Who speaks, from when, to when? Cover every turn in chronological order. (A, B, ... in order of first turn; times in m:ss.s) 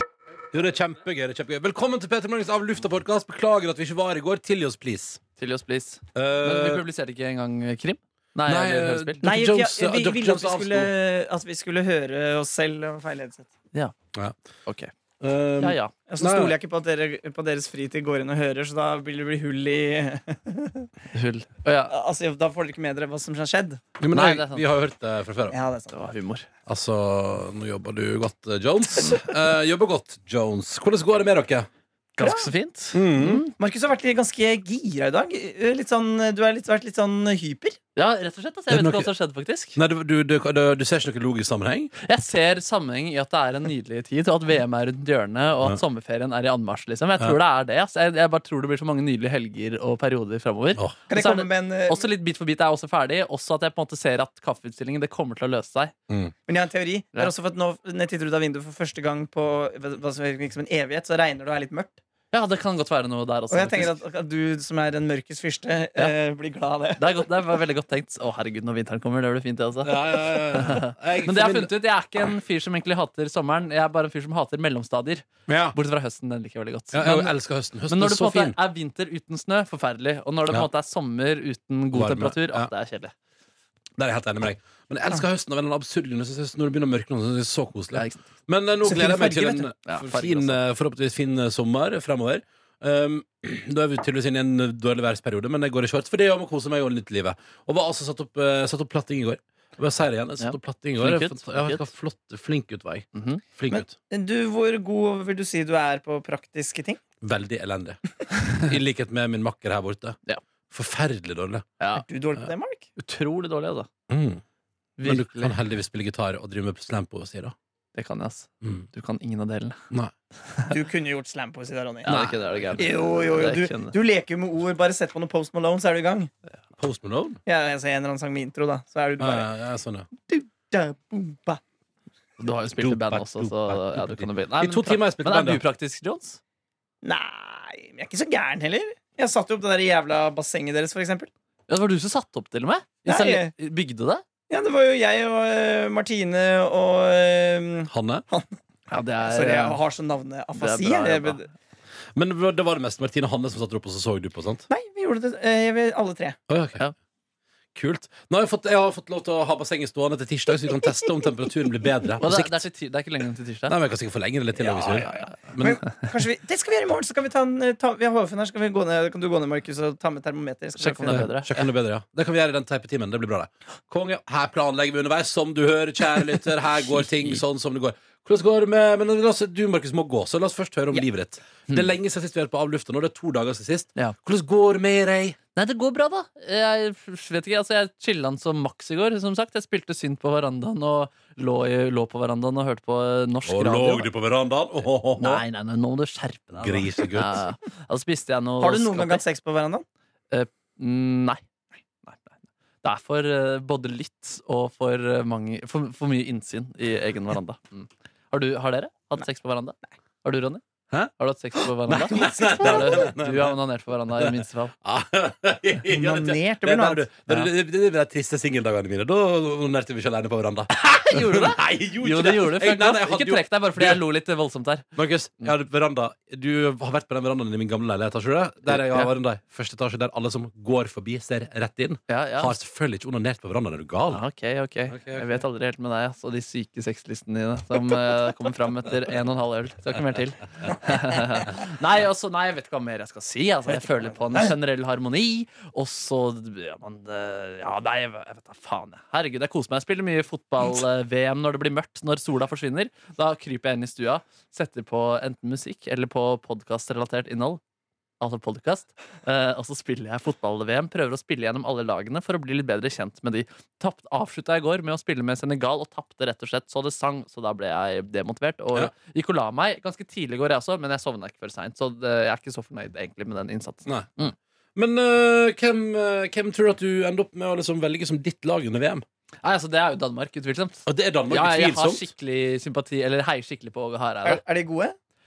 0:00.5-0:05.2 A
0:05.4-0:09.2 B
0:06.1-0:06.8 A
0:08.4-0:10.9 A
0:09.2-0:13.5 C
0:15.2-0:16.5 A
0:15.6-0:15.9 B
0:16.1-0:20.9 C
0:21.1-0:21.9 B
0:21.9-0:23.8 C
0:24.0-0:25.6 A
0:24.1-0:24.7 B
0:25.5-0:26.0 C
0:25.9-0:26.5 B
0:26.7-0:31.7 A
0:32.1-0:33.4 B
0:32.2-0:32.5 C
0:32.9-0:33.4 A
0:33.3-0:37.8 C
0:38.0-0:39.8 B
0:38.7-0:39.1 A
0:39.7-0:41.9 A
0:42.0-0:55.9 B
0:51.1-0:52.1 C
0:56.5-1:02.0 C
1:02.3-1:04.0 B
1:03.5-1:07.2 C
1:07.0-1:23.1 B
1:09.8-1:11.7 A
1:15.5-1:15.8 A
1:16.9-1:18.6 A
1:21.9-1:22.7 A
1:24.0-1:43.9 A
1:27.9-1:28.2 B
1:28.8-1:29.7 C
1:29.8-1:30.6 B
1:40.4-1:41.9 B
1:43.1-1:43.4 B
1:43.7-1:47.0 C
1:47.2-1:50.2 A
1:50.7-1:51.6 A
1:51.8-1:52.0 B
1:51.9-1:52.9 C
1:53.0-1:53.9 B
1:54.1-1:54.4 A
1:55.0-1:55.6 B
1:55.0-1:57.5 A
1:57.9-1:59.8 B
2:00.7-2:06.3 C
2:02.0-2:03.9 B
2:02.2-2:02.8 A
2:06.8-2:07.4 A
2:07.4-2:09.5 C
2:09.2-2:10.1 A
2:10.3-2:11.6 C
2:12.4-2:16.4 B
2:12.8-2:15.6 A
2:17.0-2:21.3 C
2:21.7-2:24.2 B
2:23.0-2:23.5 C
2:24.5-2:28.5 C
2:27.9-2:28.2 A
2:28.9-2:29.8 B
2:29.2-2:31.5 C
2:30.5-2:31.5 B
2:32.2-2:34.6 A
2:34.7-2:36.4 C
2:36.5-2:36.8 A
2:37.7-2:42.6 A
2:42.2-2:43.8 B
2:43.7-2:45.8 A
2:44.6-2:51.3 C
2:50.8-2:51.7 B
2:51.1-3:05.4 A
3:05.5-3:14.1 B
3:13.4-3:15.4 A
3:15.2-3:19.2 B
3:16.5-3:17.4 A
3:18.6-3:19.8 C
3:20.3-3:21.4 B
3:22.0-3:30.6 B
3:31.2-3:34.7 B
3:31.8-3:33.6 A
3:34.1-3:44.0 A
3:35.9-3:37.5 C
3:40.7-3:44.8 B
3:45.0-3:54.2 A
3:48.7-3:49.1 B
3:52.1-3:52.6 B
3:54.1-4:17.6 B
3:54.9-3:55.4 A
4:18.2-4:34.3 B
4:33.8-4:34.1 A
4:34.7-4:39.0 A
4:39.4-4:44.4 B
4:40.8-4:42.1 A
4:44.2-4:45.0 C